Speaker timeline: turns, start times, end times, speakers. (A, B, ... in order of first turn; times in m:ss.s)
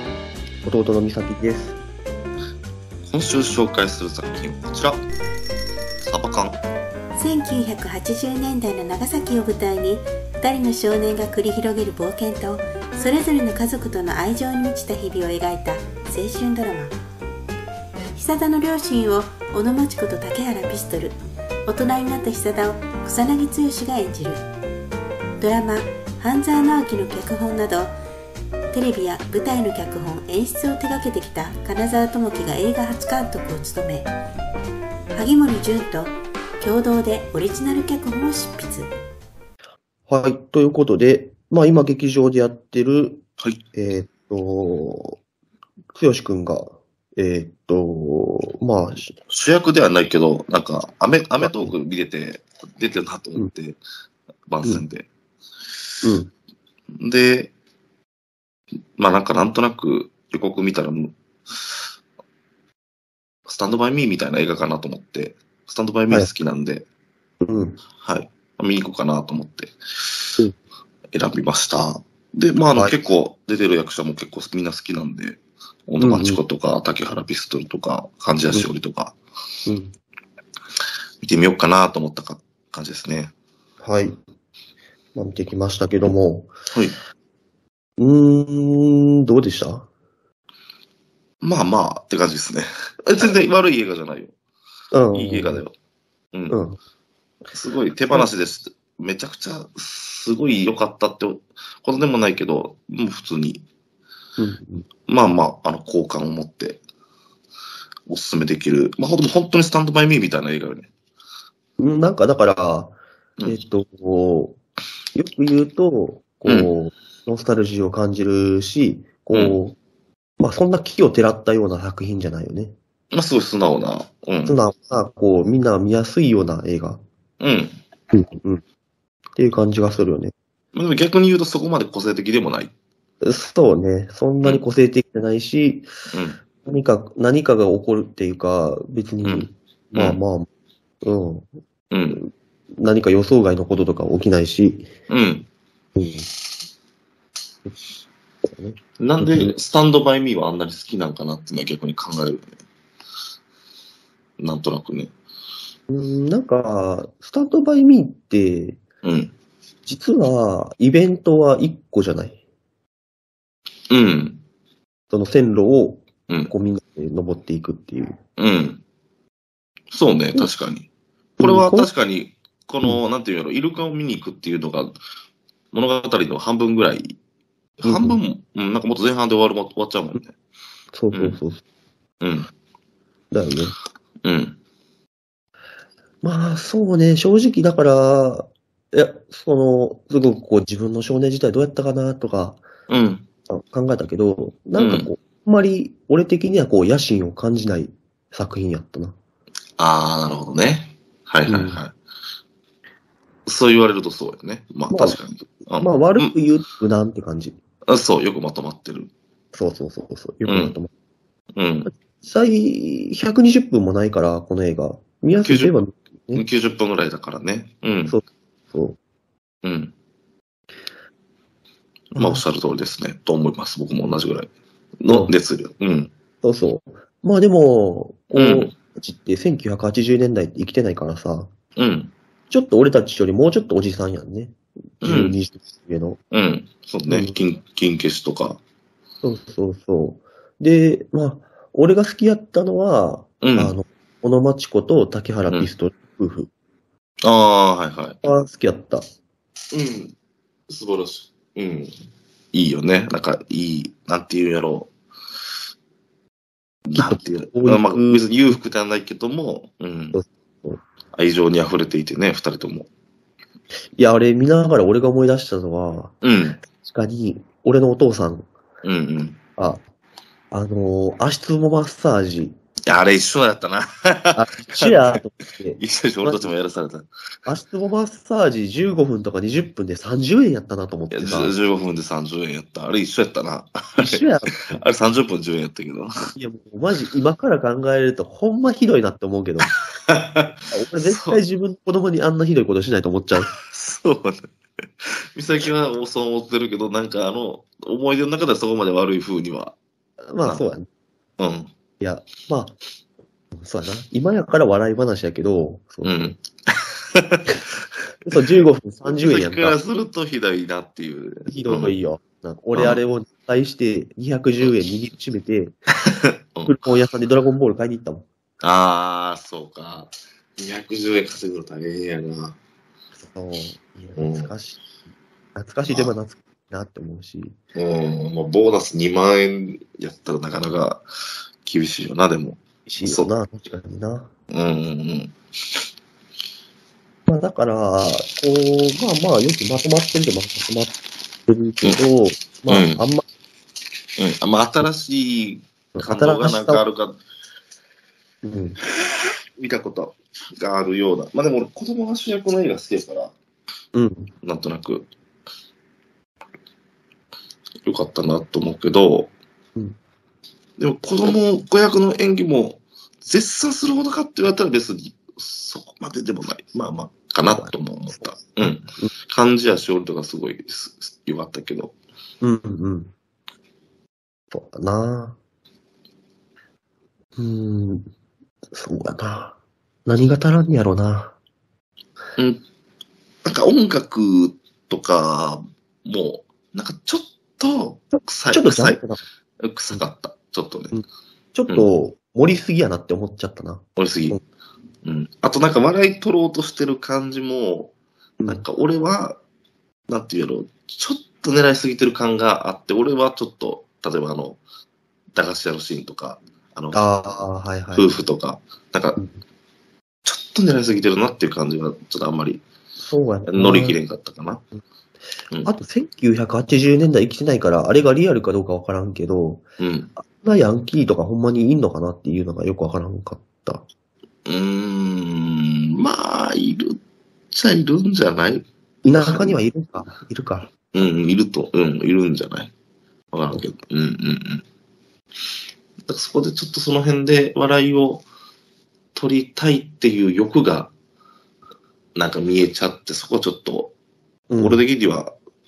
0:00.6-0:01.8 A
0:03.1-0:05.0 B
0:06.0-0:06.6 B
0:07.2-0:16.9 C
0:18.1-0:24.4 C
0:25.4-0:27.9 C
0:28.7-0:34.1 C
0:35.1-0:38.9 C
0:40.1-0:45.2 A
0:45.9-0:49.1 A
0:49.3-0:53.8 B
0:51.4-0:51.7 A
0:54.5-0:55.1 B
0:56.0-0:56.3 A
0:57.0-0:57.5 B
0:59.0-1:01.7 B
1:03.5-1:06.8 B
1:07.4-1:07.8 A
1:08.0-1:10.2 B
1:11.1-1:19.2 B
1:16.0-1:16.4 A
1:19.6-1:19.9 A
1:21.2-1:23.3 B
1:23.8-1:24.2 A
1:25.1-1:26.5 A
1:26.7-1:27.0 B
1:28.0-1:29.9 A
1:31.4-1:34.3 B
1:34.9-1:35.6 A
1:35.1-1:35.7 B
1:36.5-1:36.8 A
1:37.5-1:43.6 B
1:44.4-1:44.9 A
1:45.1-1:46.8 B
1:48.1-1:50.9 B
1:51.8-1:54.6 A
1:55.1-1:59.8 A
1:59.3-1:59.6 B
2:00.4-2:02.8 A
2:03.1-2:04.6 B
2:04.4-2:07.0 A
2:07.4-2:07.8 B
2:08.1-2:08.6 A
2:09.4-2:10.3 A
2:10.7-2:12.7 B
2:13.2-2:15.9 A
2:16.1-2:16.4 B
2:16.5-2:20.5 A
2:19.2-2:20.2 B
2:21.0-2:21.5 A
2:21.9-2:22.2 B
2:22.2-2:24.9 A
2:25.1-2:25.5 B
2:26.0-2:26.3 A
2:28.4-2:29.5 A
2:29.0-2:32.5 B
2:34.4-2:35.1 B
2:35.9-2:38.8 A
2:39.0-2:39.3 B
2:39.8-2:42.4 A
2:43.9-2:44.4 B
2:45.1-2:48.2 A
2:48.4-2:48.8 B
2:49.9-2:50.9 B
2:51.4-2:51.9 A
2:51.4-2:55.0 B
2:55.7-2:57.2 B
2:57.8-3:00.3 B
2:57.8-2:58.2 A
3:00.9-3:01.6 A
3:01.1-3:01.4 B
3:02.2-3:02.5 B
3:03.3-3:03.8 A
3:04.2-3:04.6 B
3:06.2-3:12.6 A
3:12.9-3:13.2 B
3:13.5-3:19.2 A
3:14.8-3:15.1 B
3:19.8-3:21.9 B
3:21.5-3:21.8 A
3:23.4-3:26.3 B
3:24.9-3:25.2 A
3:25.8-3:27.6 A
3:27.9-3:29.1 B
3:29.5-3:30.9 A
3:30.4-3:30.8 B
3:31.6-3:31.9 B
3:31.8-3:36.4 A
3:35.4-3:35.7 B
3:36.3-3:38.2 B
3:38.0-3:39.0 A
3:39.6-3:39.9 B
3:42.1-3:42.4 A
3:42.1-3:46.1 B
3:45.1-3:45.3 A
3:46.4-3:51.5 A
3:48.3-3:48.7 B
3:51.8-3:52.1 B
3:52.5-3:56.2 A
3:55.0-3:55.4 B
3:56.3-3:58.6 B
3:57.1-3:57.4 A
3:59.2-4:06.5 A
4:03.4-4:03.8 B
4:07.2-4:08.2 B
4:08.2-4:09.0 A
4:09.7-4:10.1 B
4:10.7-4:11.9 B
4:12.5-4:14.9 B
4:16.9-4:20.2 B
4:16.9-4:18.6 A
4:20.1-4:20.8 A
4:21.1-4:22.9 B
4:24.0-4:28.5 A
4:26.2-4:26.6 B
4:28.8-4:29.4 B
4:29.6-4:29.8 A
4:30.5-4:32.6 A
4:32.8-4:35.2 B
4:34.3-4:36.6 A
4:35.8-4:37.1 B
4:37.4-4:41.5 A
4:41.1-4:46.3 B
4:44.0-4:44.5 A
4:46.3-4:49.7 A
4:50.1-4:50.5 B
4:50.7-4:53.5 A
4:51.0-4:51.4 B
4:53.4-4:54.4 B
4:55.4-4:59.8 B
5:00.3-5:00.9 A
5:01.4-5:01.7 B
5:02.0-5:02.8 A
5:03.5-5:06.4 A
5:06.0-5:06.4 B
5:07.1-5:07.4 B
5:08.2-5:09.8 A
5:09.0-5:12.0 B
5:11.5-5:15.8 A
5:12.7-5:13.0 B
5:16.1-5:16.8 B
5:16.6-5:18.3 A
5:18.6-5:22.6 B
5:23.1-5:24.8 A
5:24.2-5:24.5 B
5:25.5-5:27.6 A
5:27.7-5:31.0 B
5:31.6-5:33.3 B
5:32.8-5:34.3 A
5:34.5-5:35.3 B
5:37.3-5:41.0 A
5:41.5-5:43.2 A
5:42.7-5:43.0 B
5:44.2-5:47.2 B
5:45.9-5:46.8 A
5:48.4-5:48.8 A
5:49.6-5:53.3 B
5:53.9-5:54.3 A
5:54.4-5:55.1 B
5:57.8-5:59.3 B
6:00.8-6:11.9 B
6:07.5-6:09.1 A
6:12.4-6:13.1 A
6:14.5-6:15.4 A
6:17.4-6:18.1 A
6:18.7-6:21.4 A
6:22.4-6:22.6 B
6:23.4-6:29.0 B
6:28.1-6:29.2 A
6:29.6-6:30.9 B
6:30.9-6:34.4 A
6:34.0-6:34.4 B
6:35.0-6:37.9 B
6:38.4-6:38.6 A
6:38.5-6:39.4 B
6:40.1-6:44.6 B
6:45.3-6:47.1 B
6:46.9-6:48.2 A
6:47.9-6:49.2 B
6:50.2-6:52.6 B
6:53.0-6:54.0 A
6:53.4-6:54.6 B
6:55.6-6:59.6 A
6:59.8-7:00.1 B
7:00.2-7:03.9 A
7:04.4-7:07.0 B
7:07.5-7:09.6 B
7:09.0-7:10.7 A
7:10.9-7:12.7 B
7:13.3-7:14.6 B
7:16.1-7:18.2 B
7:19.1-7:20.9 B
7:22.2-7:23.9 B
7:24.5-7:24.8 A
7:24.6-7:25.3 B